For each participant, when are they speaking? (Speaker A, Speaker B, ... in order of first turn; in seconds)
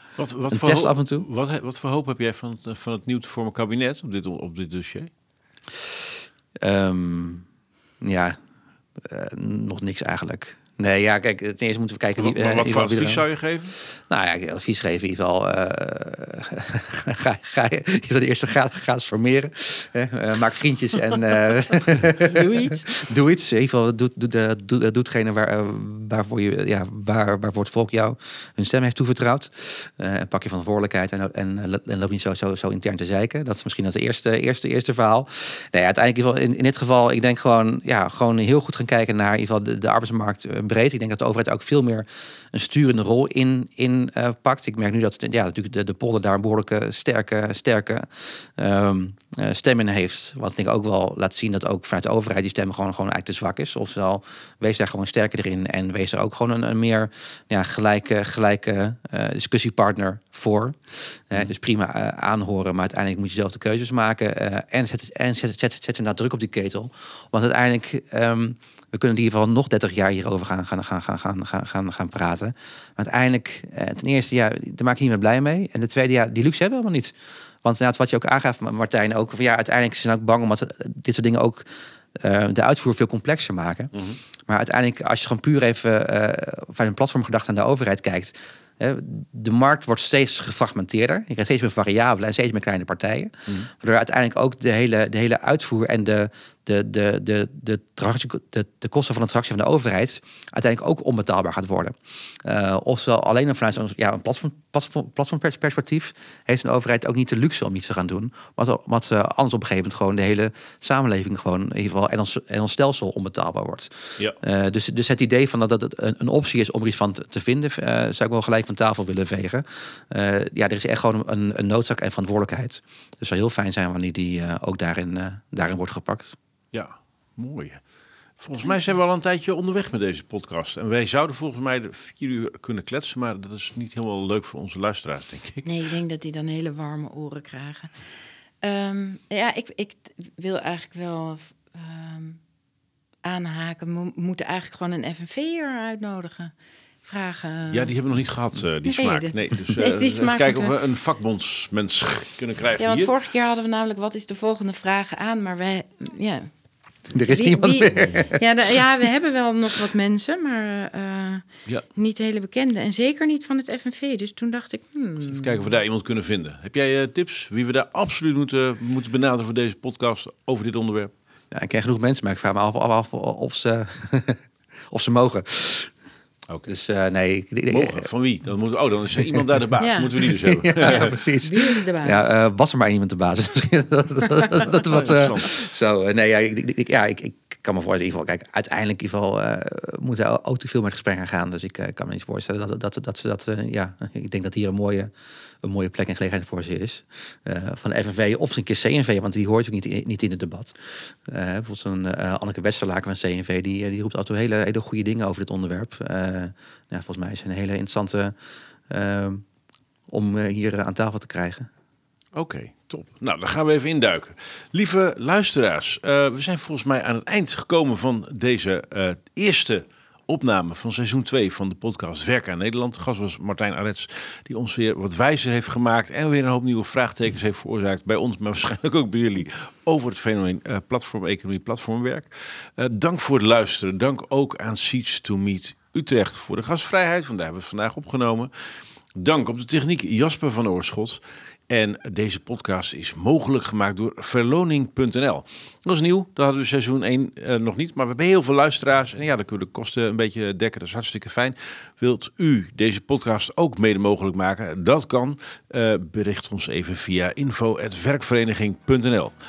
Speaker A: 0.2-5.1, 12.2-13.8, 83.9-84.2, 126.7-127.8, 128.4-135.7, 147.7-153.1, 165.2-171.1, 177.7-181.2, 184.9-185.5, 212.3-259.3
Speaker B: 0.5-1.3, 6.6-7.5, 8.0-8.4, 9.0-13.2, 13.9-83.9, 84.5-126.4, 157.1-158.4, 171.5-175.9, 176.7-178.1, 180.2-195.1, 195.6-208.3, 208.9-209.4, 210.1-211.7
Speaker C: 22.2-22.9, 135.6-137.9, 138.6-142.4, 143.2-146.5, 147.0-147.9, 148.8-150.7, 152.8-156.5, 157.2-165.6, 179.8-180.1, 180.8-182.3